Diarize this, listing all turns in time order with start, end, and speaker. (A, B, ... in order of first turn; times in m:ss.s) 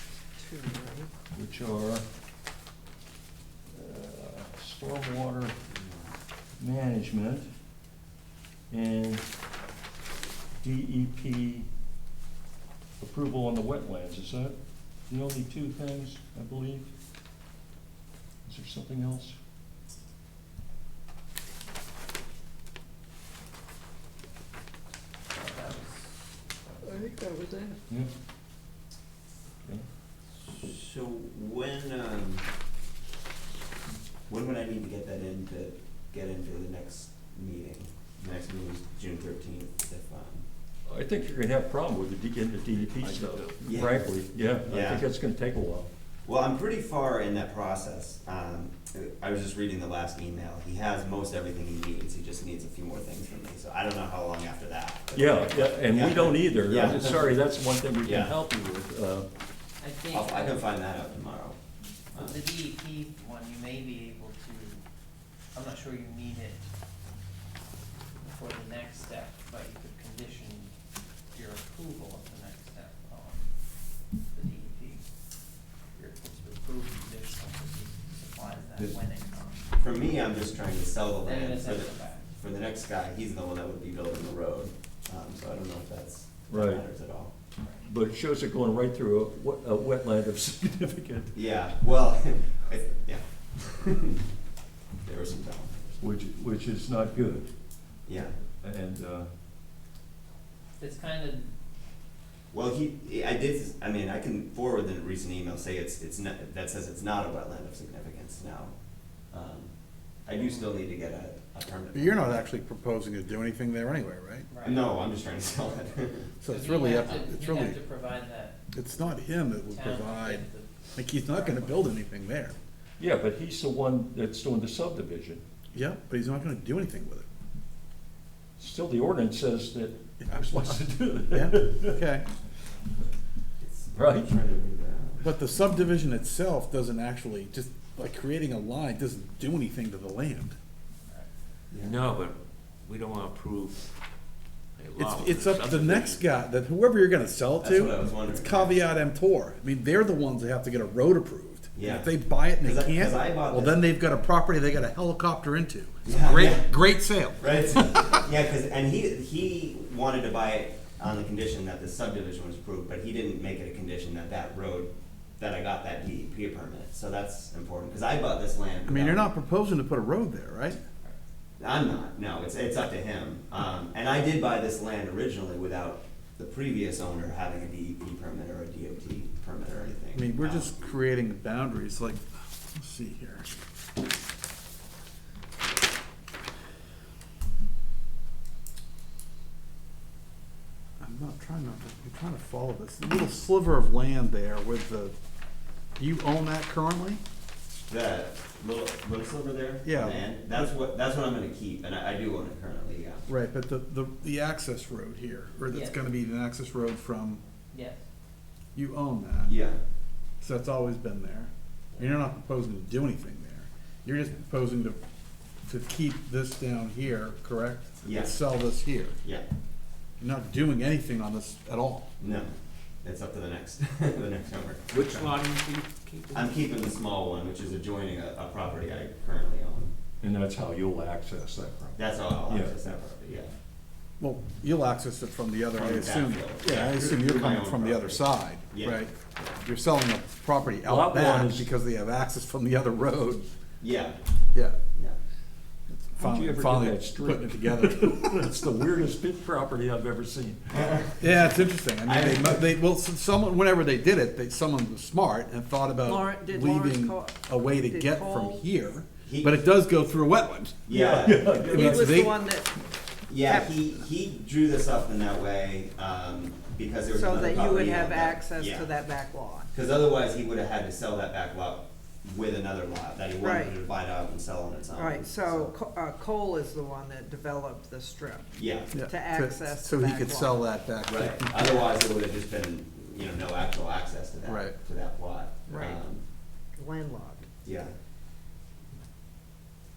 0:00.4-0:01.1 A
0:01.3-0:02.0 B
0:03.7-0:05.6 B
0:05.7-0:06.1 C
0:06.6-0:07.5 B
0:08.7-0:09.2 B
0:10.6-0:11.7 B
0:13.0-0:14.6 B
0:15.1-0:16.9 B
0:18.4-0:19.4 B
0:25.3-0:27.2 D
0:30.4-0:32.4 C
0:34.3-0:40.4 C
0:40.9-0:45.9 B
0:42.7-0:44.1 E
0:43.6-0:44.1 C
0:44.6-0:45.0 C
0:46.2-0:57.4 C
0:55.1-0:59.3 B
0:58.0-0:58.4 C
0:59.8-1:00.6 D
1:00.1-1:01.6 C
1:02.1-1:02.4 C
1:02.1-1:04.8 D
1:05.5-1:06.6 D
1:08.2-1:10.7 D
1:11.3-1:13.5 D
1:14.2-1:15.1 D
1:15.9-1:19.6 D
1:19.8-1:27.3 C
1:21.2-1:22.3 D
1:26.5-1:26.8 B
1:27.8-1:31.3 B
1:31.3-1:34.2 C
1:35.0-1:36.0 C
1:36.0-1:37.5 B
1:38.0-1:38.4 C
1:38.6-1:39.3 B
1:40.8-1:41.5 D
1:42.5-1:48.7 C
1:49.3-1:49.7 C
1:50.2-1:52.4 C
1:50.3-1:50.8 D
1:51.9-1:54.5 F
1:54.5-1:54.9 D
1:54.6-1:56.3 C
1:56.4-1:57.8 F
1:56.5-1:58.6 D
1:58.7-2:02.6 F
1:59.7-2:01.7 D
2:03.0-2:05.4 B
2:05.7-2:07.2 F
2:08.6-2:12.0 B
2:10.2-2:12.2 F
2:13.6-2:15.3 C
2:13.9-2:14.3 B
2:15.2-2:20.5 F
2:21.8-2:23.8 E
2:24.8-2:26.2 E
2:25.0-2:38.2 F
2:27.6-2:28.7 C
2:31.8-2:33.8 C
2:36.0-2:36.7 C
2:37.4-2:49.2 C
2:48.8-2:50.8 F
2:51.6-3:00.8 C
3:00.1-3:03.5 F
3:11.0-3:15.1 F
3:16.0-3:17.2 F
3:17.9-3:23.2 C
3:19.8-3:20.7 F
3:23.3-3:27.4 F
3:25.7-3:26.0 D
3:27.7-3:28.0 D
3:28.7-3:29.5 F
3:29.4-3:29.8 C
3:30.4-3:35.0 F
3:35.7-3:39.2 F
3:38.0-3:38.4 C
3:40.2-3:42.1 F
3:42.2-3:45.3 C
3:44.9-3:46.6 E
3:46.3-3:49.9 C
3:50.2-3:52.7 B
3:52.0-3:53.5 C
3:54.2-4:03.5 F
3:55.8-3:59.6 C
4:00.8-4:01.7 B
4:03.8-4:04.2 C
4:05.9-4:08.2 F
4:06.2-4:10.6 B
4:10.7-4:11.1 C
4:11.2-4:20.8 F
4:12.0-4:12.6 C
4:16.0-4:18.6 A
4:19.2-4:19.5 C
4:20.9-4:21.7 C
4:20.9-4:22.3 B
4:21.6-4:22.7 A
4:21.7-4:22.4 F
4:23.3-4:28.9 C
4:23.5-4:23.8 A
4:27.1-4:29.7 A
4:29.7-4:35.7 C
4:33.4-4:33.8 A
4:34.9-4:40.6 A
4:38.5-4:39.0 C
4:38.9-4:41.8 F
4:41.0-4:46.2 C
4:44.4-4:44.8 F
4:45.7-4:46.0 A
4:46.8-4:47.5 A
4:47.6-4:47.9 C